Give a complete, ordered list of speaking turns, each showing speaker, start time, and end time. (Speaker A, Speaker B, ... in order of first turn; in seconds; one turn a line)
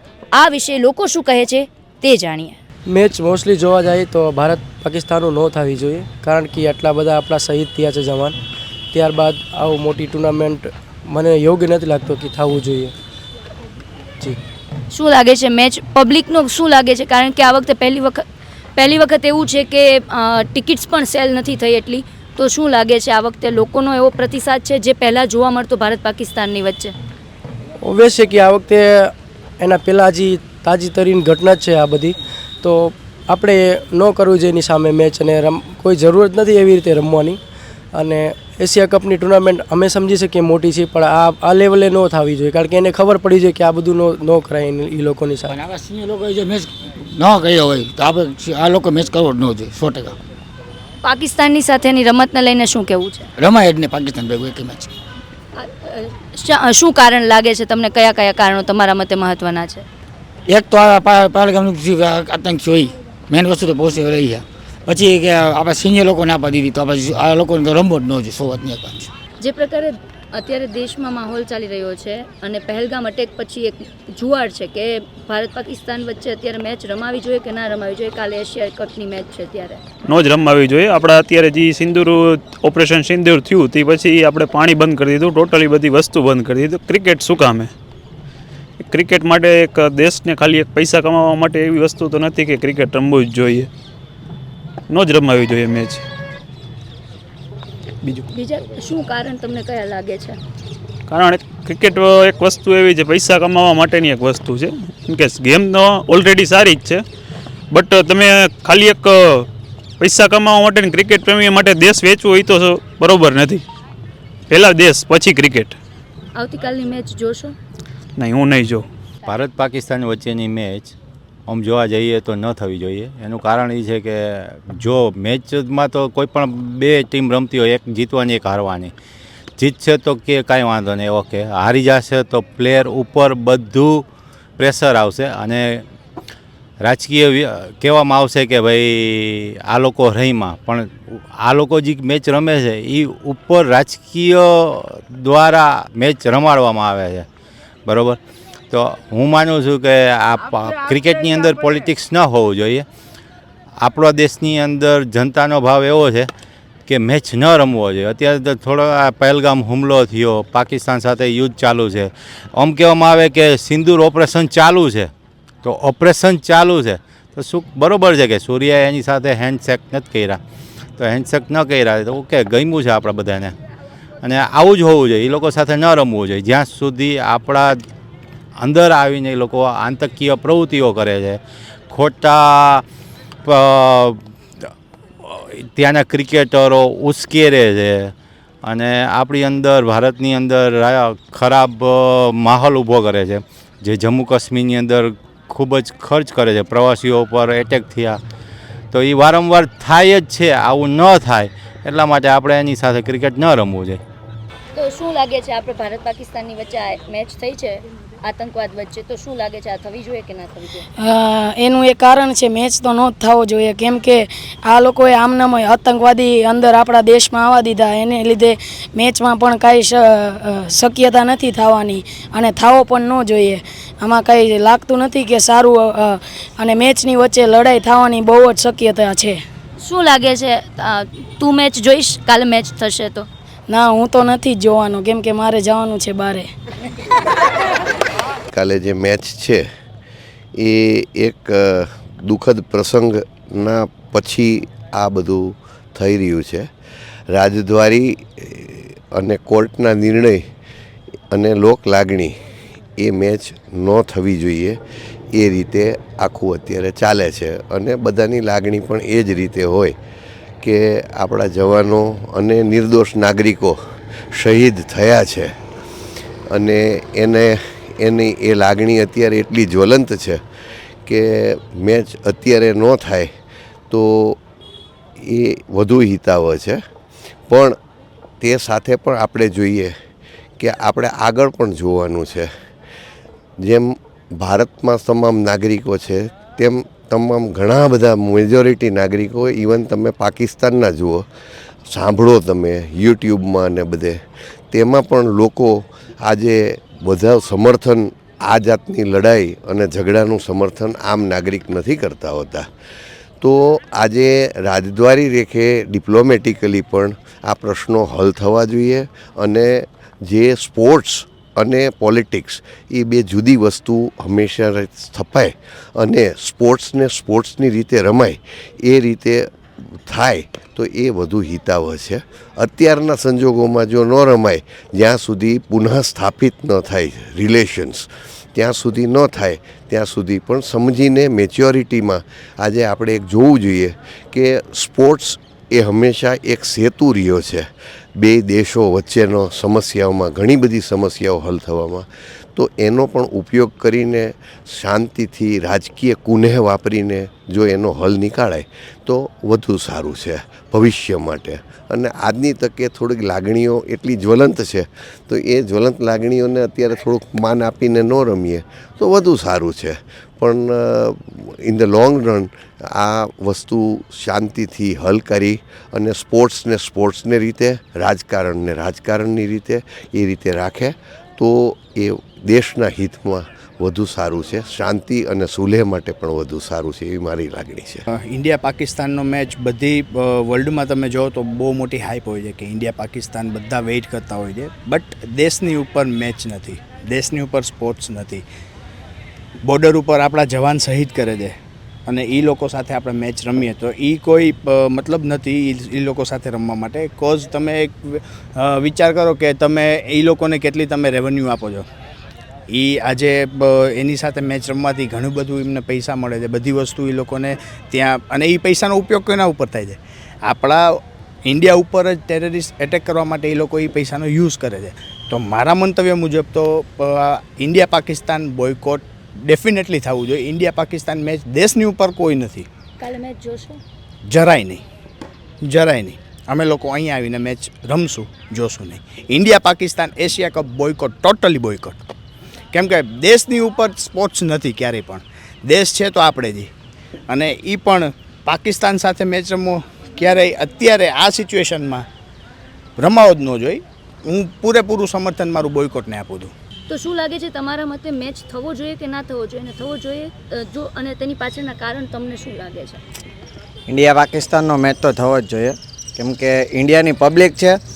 Speaker A: 0.3-2.6
Speaker B: 2.9-8.4
Speaker B: 8.9-12.9
Speaker A: 14.9-18.2
Speaker A: 18.8-26.9
Speaker B: 27.8-37.4
Speaker B: 37.9-45.5
Speaker C: 45.5-50.2
Speaker A: 51.0-53.3
Speaker C: 53.4-54.9
Speaker A: 55.5-59.8
Speaker C: 60.5-69.1
Speaker A: 69.4-79.8
Speaker D: 80.0-87.7
Speaker D: 88.8-93.7
Speaker D: 94.9-96.0
Speaker A: 98.3-100.4
Speaker D: 101.1-107.0
Speaker D: 107.7-109.5
Speaker D: 110.0-113.7
Speaker D: 114.5-115.8
Speaker A: 116.3-117.5
Speaker D: 118.2-118.9
Speaker E: 119.3-120.9
Speaker E: 121.5-128.9
Speaker E: 129.6-134.0
Speaker E: 134.6-135.8
Speaker E: 136.8-147.2
Speaker E: 147.9-148.2
Speaker E: 148.7-152.8
Speaker E: 153.8-156.3
Speaker E: 156.9-165.1
Speaker E: 165.6-170.4
Speaker E: 171.0-173.6
Speaker E: 174.2-177.8
Speaker E: 178.6-182.8
Speaker E: 183.5-184.2
Speaker E: 185.2-188.1
Speaker E: 188.6-198.2
Speaker E: 198.9-204.0
Speaker A: 204.8-210.9
Speaker F: 211.0-229.4
Speaker A: 229.8-233.3
Speaker F: 233.7-236.5
Speaker G: 238.5-239.7
Speaker G: 240.6-246.7
Speaker G: 247.3-250.4
Speaker G: 251.3-252.4
Speaker G: 253.0-254.8
Speaker G: 255.3-259.9
Speaker G: 260.6-263.8
Speaker G: 264.3-265.5
Speaker G: 266.5-270.4
Speaker G: 271.1-273.3
Speaker G: 273.9-274.4
Speaker G: 275.2-276.8
Speaker G: 277.5-277.8
Speaker G: 278.4-279.9
Speaker G: 280.6-282.5
Speaker G: 283.6-291.2
Speaker G: 291.9-302.7
Speaker G: 303.4-378.0
Speaker H: 378.1-388.4
Speaker H: 389.6-391.6
Speaker H: 392.1-401.9
Speaker H: 402.7-422.7
Speaker A: 423.0-423.8
Speaker H: 424.3-424.8
Speaker H: 425.6-432.0
Speaker H: 432.7-436.7
Speaker H: 437.3-442.1
Speaker H: 443.0-446.5
Speaker A: 446.9-453.0
Speaker I: 453.9-457.8